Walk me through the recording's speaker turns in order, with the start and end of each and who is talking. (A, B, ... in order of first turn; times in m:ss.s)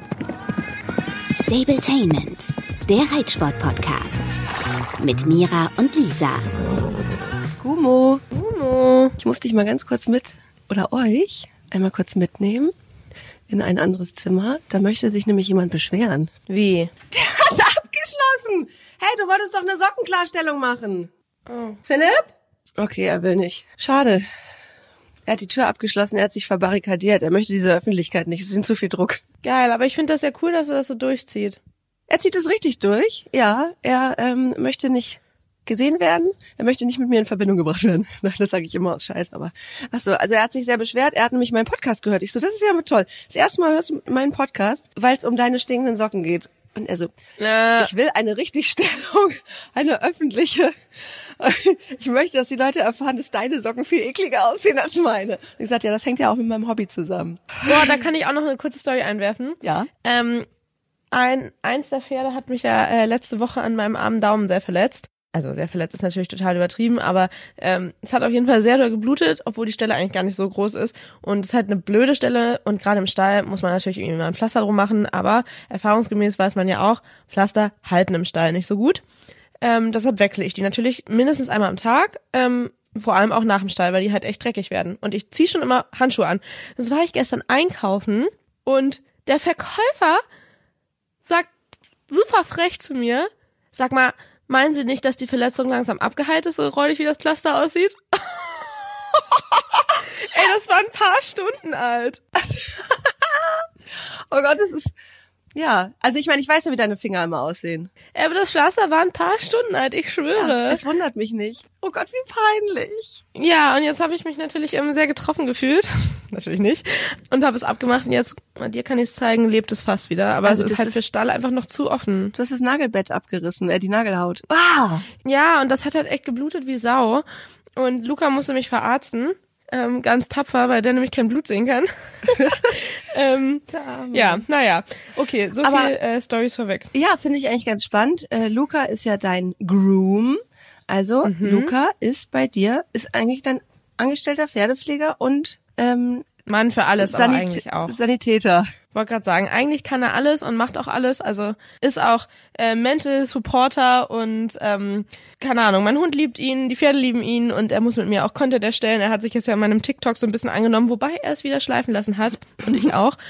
0:01.3-0:04.3 A
0:05.0-0:06.5 A
0:07.6-0:08.2 B
0:08.3-0:09.2 C
0:09.2-0:12.7 B
0:13.5-0:16.3 B
0:16.5-0:16.9 C
0:17.1-0:21.1 B
0:21.5-0:21.8 C
0:21.9-0:24.3 B
0:25.3-0:29.2 B
0:29.4-0:31.6 C
0:32.1-0:47.1 B
0:47.4-0:47.9 C
0:47.8-0:57.9 B
0:57.7-1:00.5 C
0:59.6-0:59.9 B
1:01.1-1:19.0 C
1:19.6-1:30.2 C
1:31.2-1:31.5 C
1:32.1-1:39.2 C
1:40.2-1:42.2 C
1:42.6-1:44.9 B
1:45.6-1:47.9 B
1:48.1-1:50.8 C
1:50.4-1:53.2 B
1:53.4-2:02.3 C
2:00.4-2:01.0 B
2:02.4-2:05.1 B
2:05.2-2:07.2 C
2:07.8-2:16.9 C
2:12.4-2:12.7 B
2:13.7-2:14.4 B
2:15.6-2:15.9 B
2:16.9-2:26.3 B
2:21.2-2:21.7 C
2:26.5-2:27.9 C
2:27.0-2:28.7 B
2:28.9-2:43.2 C